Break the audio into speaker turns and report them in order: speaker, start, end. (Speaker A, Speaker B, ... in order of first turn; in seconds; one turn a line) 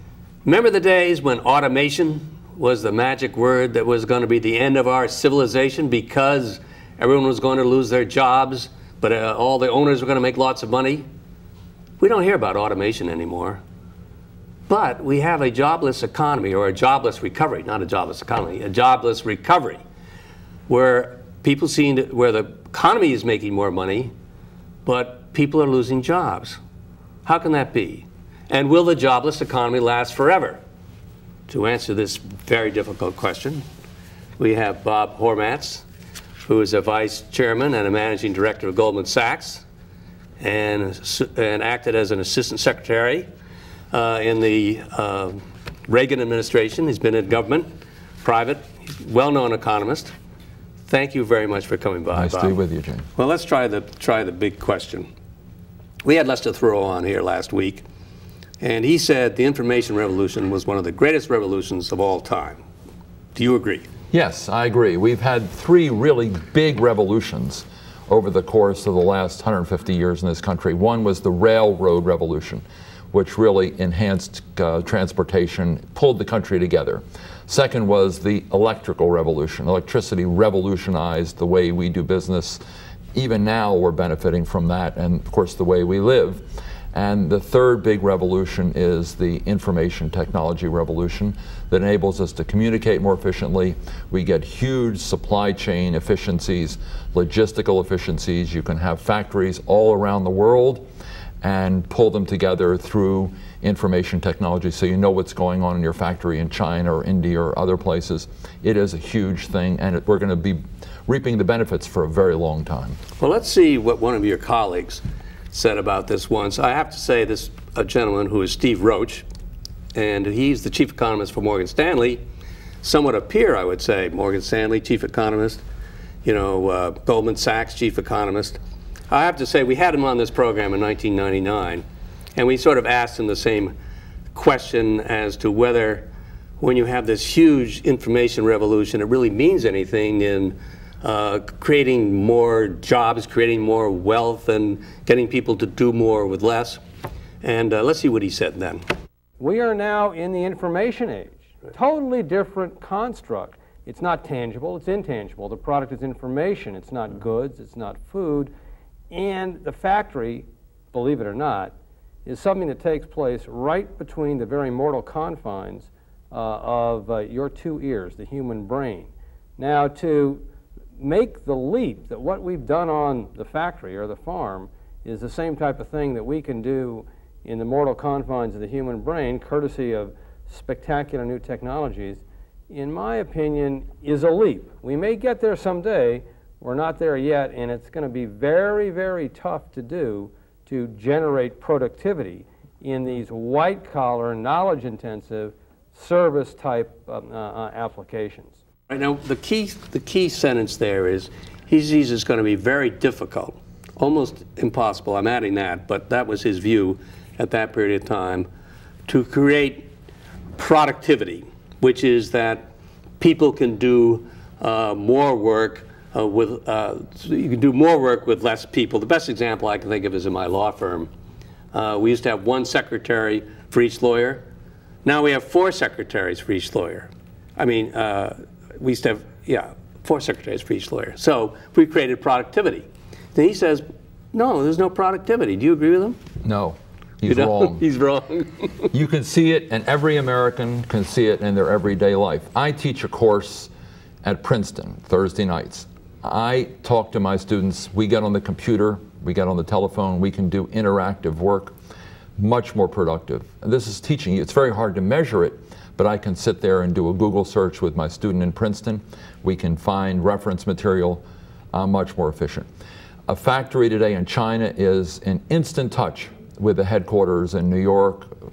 Speaker A: 0.4-11.1
Speaker A: 12.0-13.6
Speaker A: 14.7-19.8
Speaker A: 20.7-24.1
Speaker A: 24.8-26.6
Speaker A: 27.2-30.6
Speaker A: 31.5-33.6
Speaker A: 34.4-35.8
Speaker A: 36.4-39.6
Speaker A: 40.4-43.3
Speaker A: 43.9-47.7
Speaker A: 48.2-50.1
Speaker A: 50.9-52.5
Speaker B: 52.1-53.0
Speaker A: 53.1-55.1
Speaker A: 56.0-57.8
Speaker A: 58.6-62.6
Speaker A: 63.3-63.8
Speaker B: 64.1-82.6
Speaker B: 83.1-100.9
Speaker B: 101.4-113.0
Speaker A: 113.2-119.2
Speaker A: 119.9-122.2
Speaker A: 122.8-125.6
Speaker A: 126.2-128.6
Speaker A: 129.1-131.8
Speaker A: 132.3-133.7
Speaker A: 134.3-136.1
Speaker A: 136.6-146.8
Speaker A: 147.4-148.8
Speaker C: 149.4-158.5
Speaker C: 159.1-161.7
Speaker C: 162.2-170.4
Speaker C: 171.0-198.6
Speaker A: 198.9-208.5
Speaker A: 209.1-209.9
Speaker A: 210.6-212.7
Speaker A: 213.2-221.1
Speaker A: 221.7-224.4
Speaker A: 225.0-236.2
Speaker B: 236.4-237.8
Speaker A: 237.2-238.9
Speaker B: 238.9-243.7
Speaker B: 244.2-251.8
Speaker B: 252.4-262.7
Speaker B: 263.3-268.3